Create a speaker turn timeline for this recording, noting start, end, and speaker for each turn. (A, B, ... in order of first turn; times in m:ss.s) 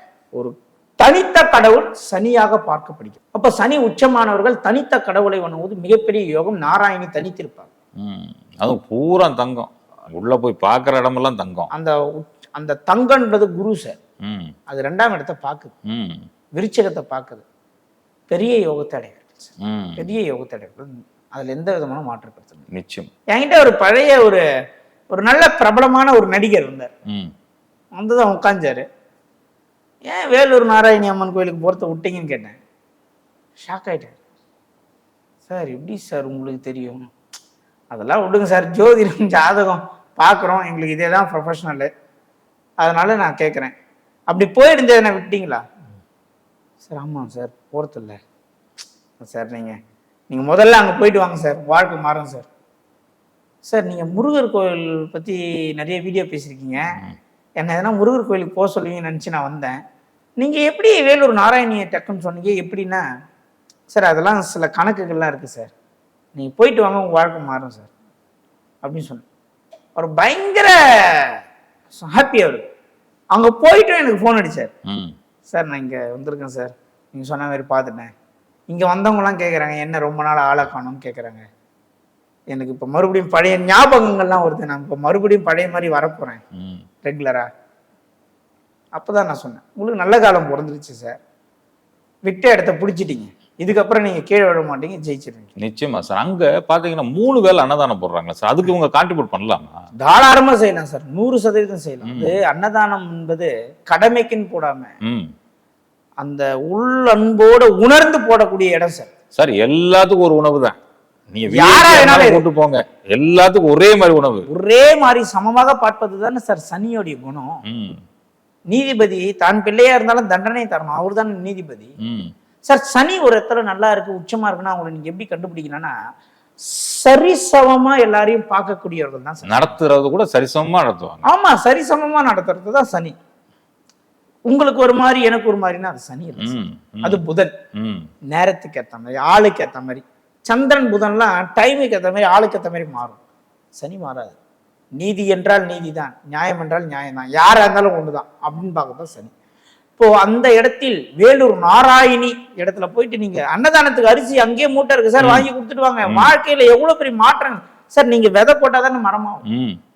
0:00.4-0:07.7 A
0:08.0-0:11.7 B
0:11.7-0:14.0 A
0:14.2-0:14.5 B
0:14.7-0:15.7 A
0:15.9-0:16.3 B
0:16.6-0:17.4 A
0:18.3-0:19.4 A
0:19.6-0:20.0 B
0:20.0-0:22.7 A
0:22.7-0:23.1 B
0:23.3-0:24.4 A
0:25.1-0:26.9 A
0:28.0-0:28.8 A
0:30.1-0:32.6 A
0:33.6-0:34.2 A
0:35.5-0:37.0 A
0:37.9-0:41.9 A
0:42.8-0:43.7 A
0:44.3-0:45.6 A
0:46.8-0:48.2 A
0:49.2-0:49.7 A
0:50.3-0:52.5 A
0:53.6-0:57.0 A
0:57.6-0:59.8 A
1:00.4-1:03.0 A
1:03.9-1:05.7 A
1:06.4-1:07.9 A
1:08.8-1:09.2 A
1:10.0-1:11.4 A
1:11.9-1:12.6 A
1:13.3-1:14.7 A
1:14.9-1:15.1 B
1:15.5-1:18.1 A
1:18.7-1:21.4 A
1:22.5-1:26.4 A
1:26.6-1:26.8 B
1:27.0-1:27.5 A
1:28.9-1:31.2 A
1:32.2-1:35.5 A
1:35.6-1:39.7 B
1:40.0-1:44.9 A
1:42.0-1:42.4 B
1:45.0-1:45.3 B
1:46.2-1:49.1 A
1:49.4-1:50.8 B
1:51.3-1:54.5 B
1:51.5-1:52.4 A
1:54.5-1:57.6 A
1:57.6-1:58.0 B
1:58.7-2:01.9 A
2:02.0-2:02.3 B
2:02.7-2:05.9 A
2:06.7-2:09.7 A
2:09.4-2:11.2 B
2:11.2-2:13.1 A
2:14.5-2:17.5 A
2:16.4-2:17.2 B
2:17.8-2:18.1 B
2:18.3-2:23.2 A
2:23.7-2:24.4 A
2:25.0-2:29.3 A
2:30.0-2:39.4 A
2:35.2-2:35.5 B
2:36.0-2:36.3 B
2:39.5-2:39.8 B